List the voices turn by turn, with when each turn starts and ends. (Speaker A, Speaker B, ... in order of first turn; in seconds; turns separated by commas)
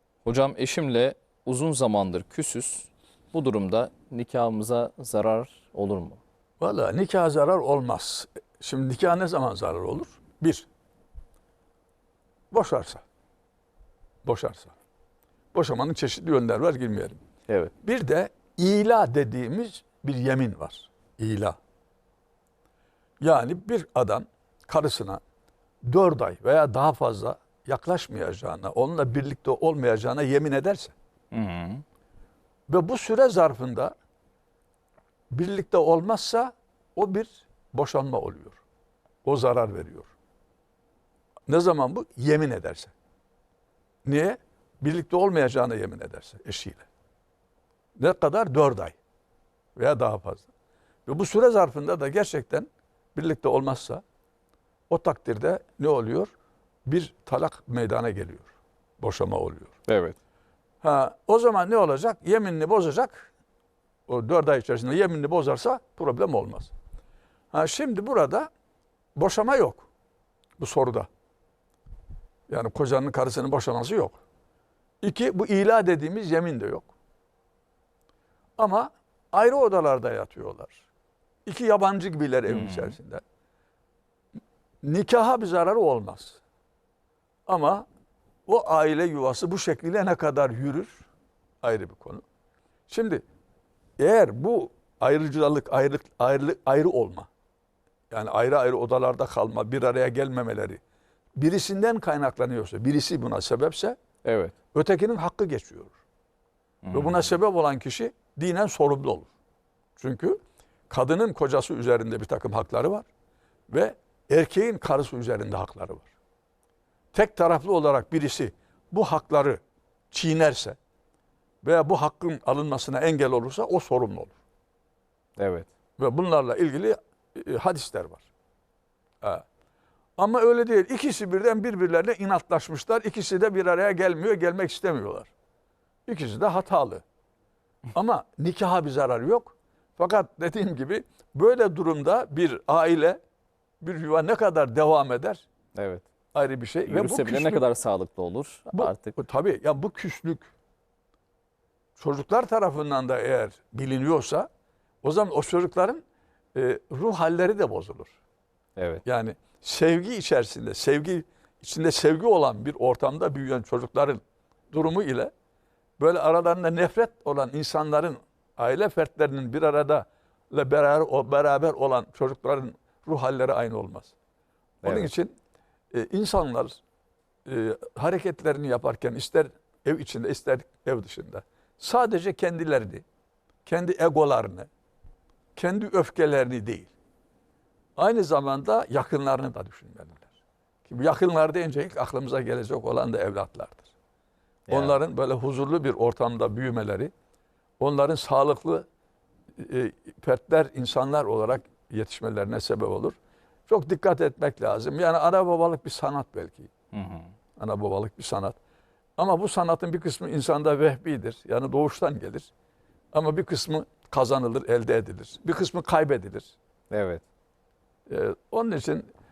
Speaker A: 0.2-6.2, Speaker B: 6.6-10.7, Speaker B: 12.5-13.0, Speaker B: 14.2-14.7, Speaker B: 15.5-17.2, Speaker B: 17.8-21.6, Speaker B: 23.2-25.2, Speaker B: 25.8-30.9, Speaker A: 31.3-31.8, Speaker B: 32.7-33.9, Speaker B: 35.3-38.6, Speaker B: 39.2-40.1, Speaker B: 41.5-42.9, Speaker B: 44.0-46.9, Speaker B: 48.0-49.0, Speaker B: 49.8-50.5, Speaker B: 51.0-54.0, Speaker B: 54.9-56.3, Speaker B: 56.9-59.7, Speaker A: 59.9-60.1, Speaker B: 60.8-63.3, Speaker B: 64.1-66.7, Speaker B: 67.5-68.5, Speaker B: 69.1-69.9, Speaker B: 70.6-71.1, Speaker B: 72.5-74.2, Speaker B: 75.0-76.9, Speaker B: 78.6-80.8, Speaker B: 81.5-83.2, Speaker A: 82.5-83.0, Speaker B: 84.8-86.4, Speaker B: 87.5-87.8, Speaker B: 88.5-91.0, Speaker B: 91.6-92.2, Speaker B: 92.9-93.2, Speaker B: 94.0-97.3, Speaker B: 98.1-100.8, Speaker B: 101.4-104.0, Speaker A: 104.2-104.5, Speaker B: 104.7-105.9, Speaker A: 106.8-107.3, Speaker B: 106.9-109.3, Speaker B: 110.0-110.4, Speaker B: 110.9-113.1, Speaker B: 113.7-116.1, Speaker B: 117.1-120.8, Speaker B: 121.6-124.3, Speaker A: 125.4-125.7, Speaker B: 126.0-128.2, Speaker B: 130.2-135.3, Speaker B: 136.1-137.0, Speaker B: 137.9-143.2, Speaker B: 143.8-145.4, Speaker A: 145.7-146.1, Speaker B: 146.3-147.7, Speaker A: 146.9-149.2, Speaker B: 148.7-150.5, Speaker B: 152.0-154.5, Speaker B: 155.0-156.0, Speaker B: 156.5-158.1, Speaker A: 158.8-159.0, Speaker B: 159.0-164.2, Speaker B: 164.7-165.3, Speaker B: 166.0-174.1, Speaker A: 174.8-175.1, Speaker B: 174.8-175.3, Speaker B: 175.9-176.8, Speaker B: 177.4-183.0, Speaker B: 183.7-184.7, Speaker B: 185.6-186.9, Speaker B: 188.0-190.3, Speaker B: 190.8-193.9, Speaker A: 194.7-194.9, Speaker B: 194.7-197.1, Speaker B: 197.8-198.8, Speaker B: 199.6-203.2, Speaker B: 203.7-206.7, Speaker A: 206.9-207.3, Speaker B: 207.6-208.6, Speaker B: 209.2-212.5, Speaker B: 213.1-216.5, Speaker A: 216.9-217.2, Speaker B: 218.1-219.1